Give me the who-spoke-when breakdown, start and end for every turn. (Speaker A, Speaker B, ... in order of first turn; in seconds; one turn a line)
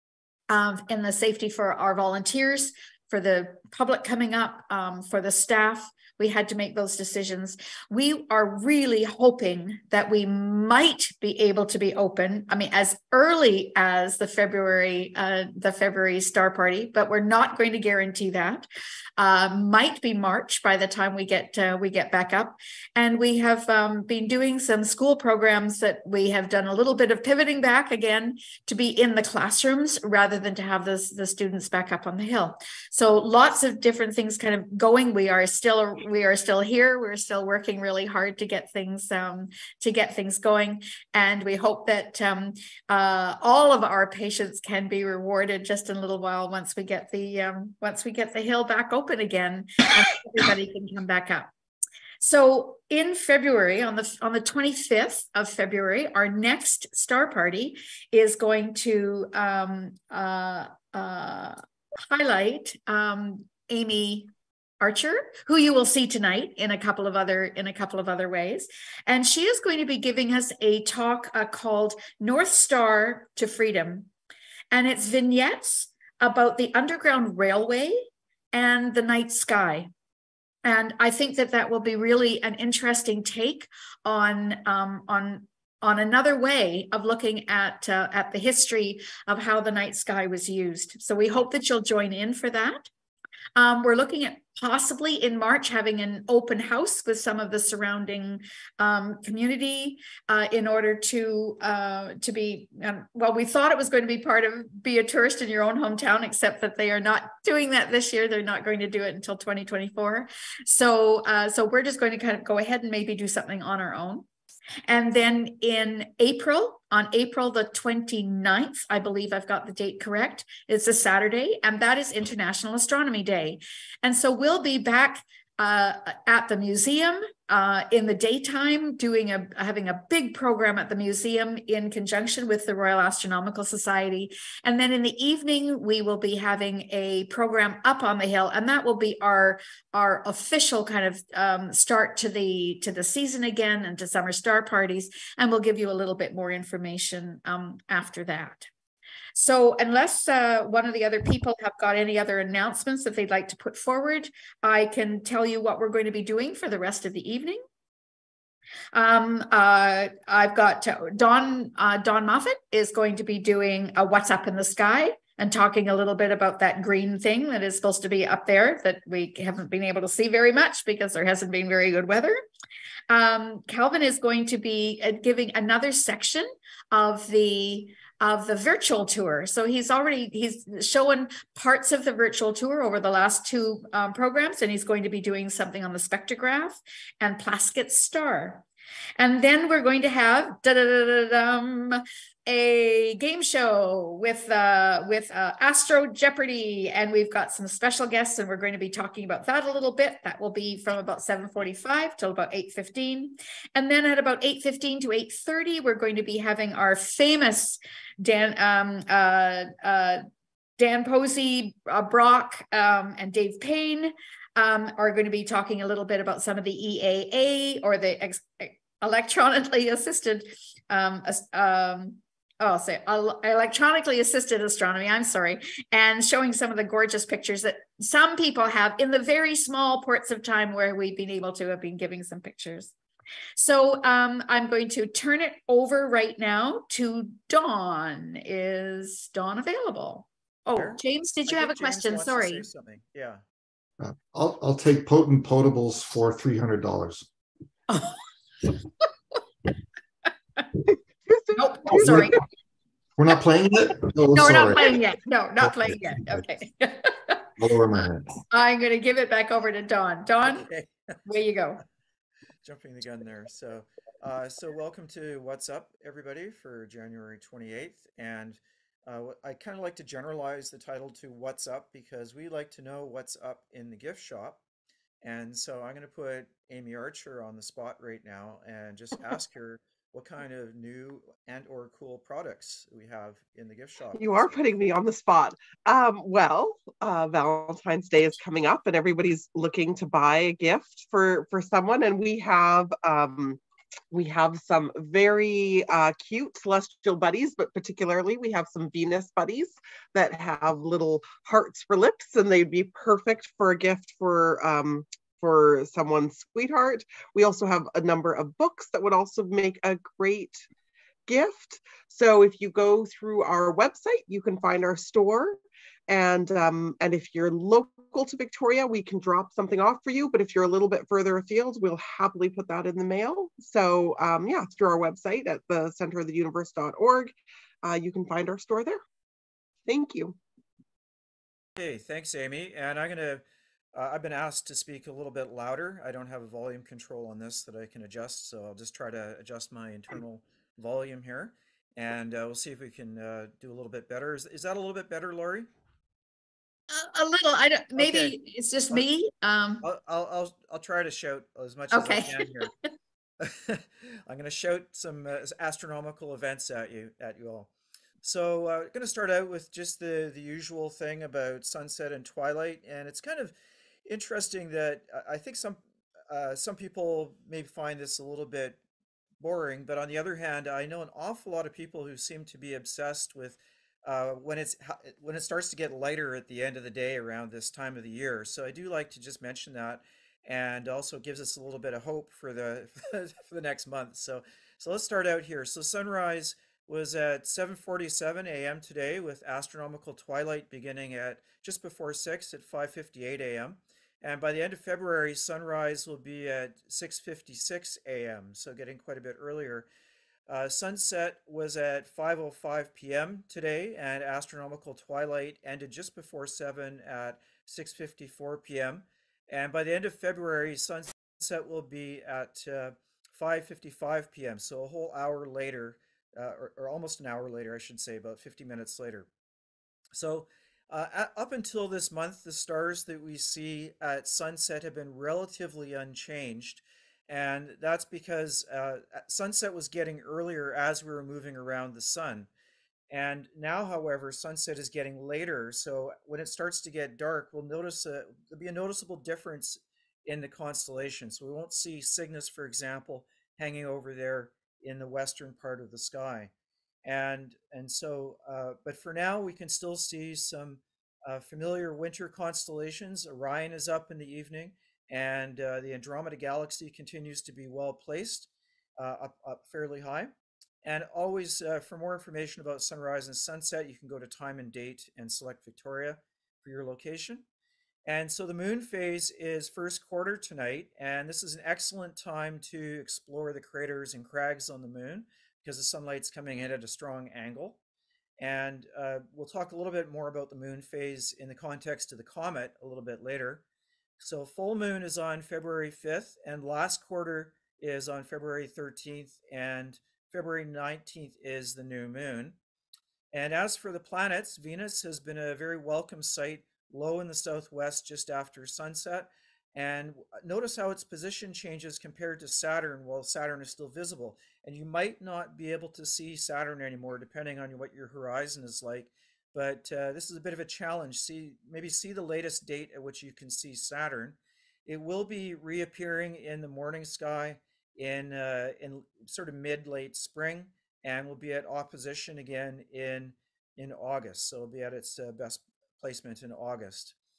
Speaker A: 0.5-18.7
Speaker A: 19.2-51.5
Speaker A: 52.2-61.6
Speaker A: 62.1-64.3
Speaker A: 64.8-74.1
Speaker A: 74.7-79.9
Speaker A: 80.6-92.9
Speaker A: 93.5-114.2
Speaker A: 114.9-148.7
Speaker A: 149.3-157.6
Speaker A: 158.9-172.4
Speaker A: 173.1-188.6
Speaker A: 189.2-210.2
Speaker A: 210.8-232.9
Speaker A: 233.6-242.6
Speaker B: 240.8-243.4
Speaker C: 244.0-247.3
Speaker A: 247.9-248.2
Speaker D: 251.3-252.3
Speaker A: 251.5-252.4
Speaker C: 251.9-252.3
Speaker C: 253.2-255.0
Speaker A: 254.3-257.4
Speaker C: 255.6-256.4
Speaker C: 257.6-258.3
Speaker A: 258.5-260.7
Speaker B: 260.4-260.9
Speaker A: 261.2-261.8
Speaker B: 262.6-274.6
Speaker B: 275.2-284.5
Speaker D: 284.2-293.6
Speaker D: 294.1-310.6
Speaker D: 311.3-329.0
Speaker D: 329.9-330.4
Speaker B: 331.8-345.7
Speaker A: 346.9-349.8
Speaker B: 347.9-348.4
Speaker B: 349.8-352.7
Speaker A: 351.9-352.5
Speaker B: 353.4-357.7
Speaker B: 358.2-368.8
Speaker B: 369.4-399.9
Speaker B: 400.5-419.3
Speaker B: 420.1-432.5
Speaker B: 433.1-446.5
Speaker B: 447.0-460.3
Speaker B: 460.8-467.4
Speaker B: 468.1-477.8
Speaker B: 478.4-483.6
Speaker B: 484.2-492.6
Speaker B: 493.3-527.1